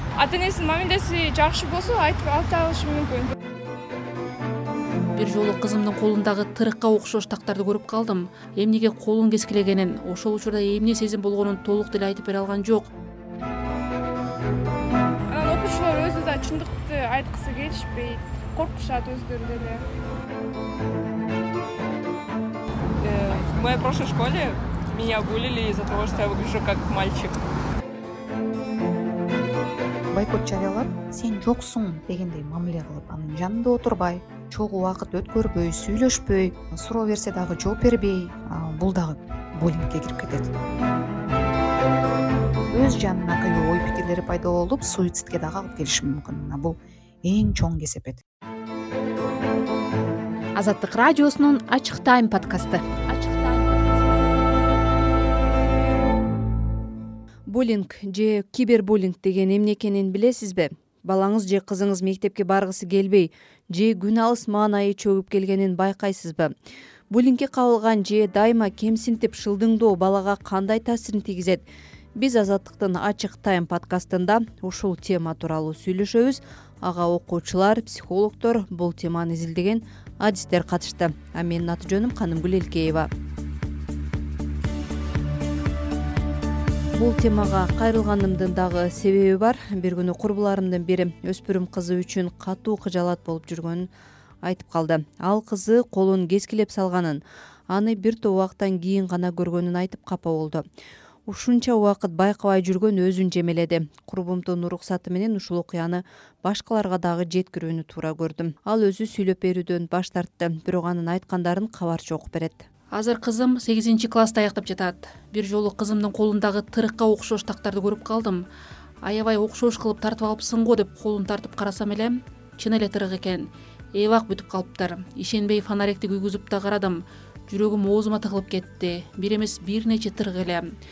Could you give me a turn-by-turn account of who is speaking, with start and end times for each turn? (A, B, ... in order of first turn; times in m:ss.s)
0:00.2-0:03.3 A
0:05.2-0:12.9 B
0:15.3-0:19.8 A
0:23.0-0:27.4 C
0:30.1-0:40.6 D
0:42.7-0:48.2 D
0:50.6-0:54.0 E
0:57.5-1:06.5 F
1:07.1-1:11.6 F
1:12.2-1:23.1 F
1:27.0-1:33.9 F
1:34.4-1:40.6 F
1:41.3-1:52.7 F
1:52.9-1:58.5 B
1:59.0-2:10.7 B